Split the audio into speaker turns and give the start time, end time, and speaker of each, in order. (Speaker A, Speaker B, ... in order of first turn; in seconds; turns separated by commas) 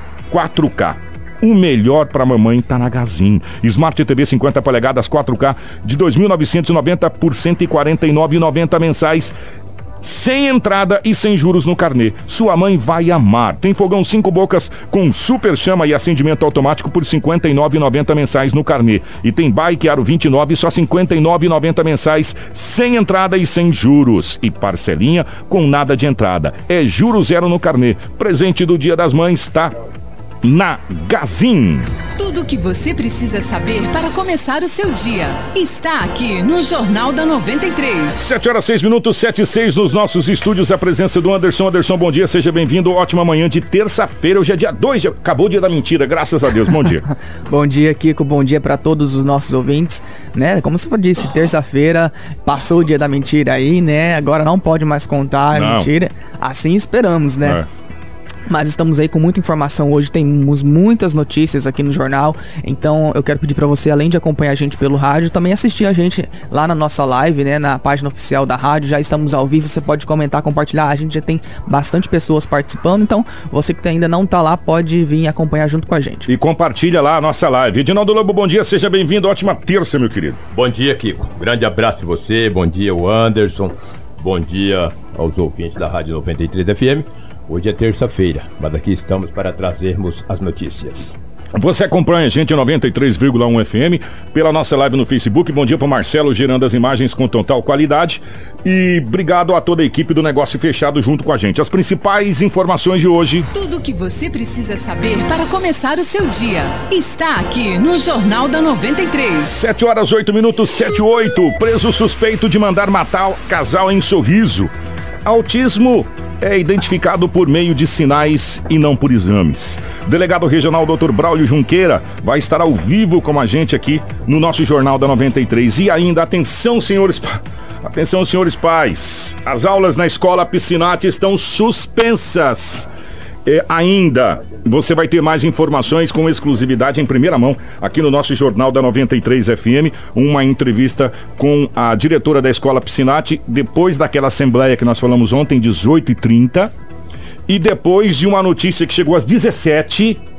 Speaker A: 0.3-9.4, Speaker A: 10.0-29.7, Speaker A: 30.4-31.9, Speaker B: 32.2-38.2, Speaker A: 38.2-47.0, Speaker C: 47.5-57.6, Speaker A: 55.5-55.9, Speaker A: 57.4-57.7, Speaker C: 58.5-76.3, Speaker A: 76.3-80.4, Speaker D: 80.5-91.2, Speaker A: 91.5-103.5, Speaker B: 103.5-109.5, Speaker A: 109.4-114.7, Speaker A: 115.2-132.9, Speaker A: 133.4-146.7, Speaker A: 147.5-150.2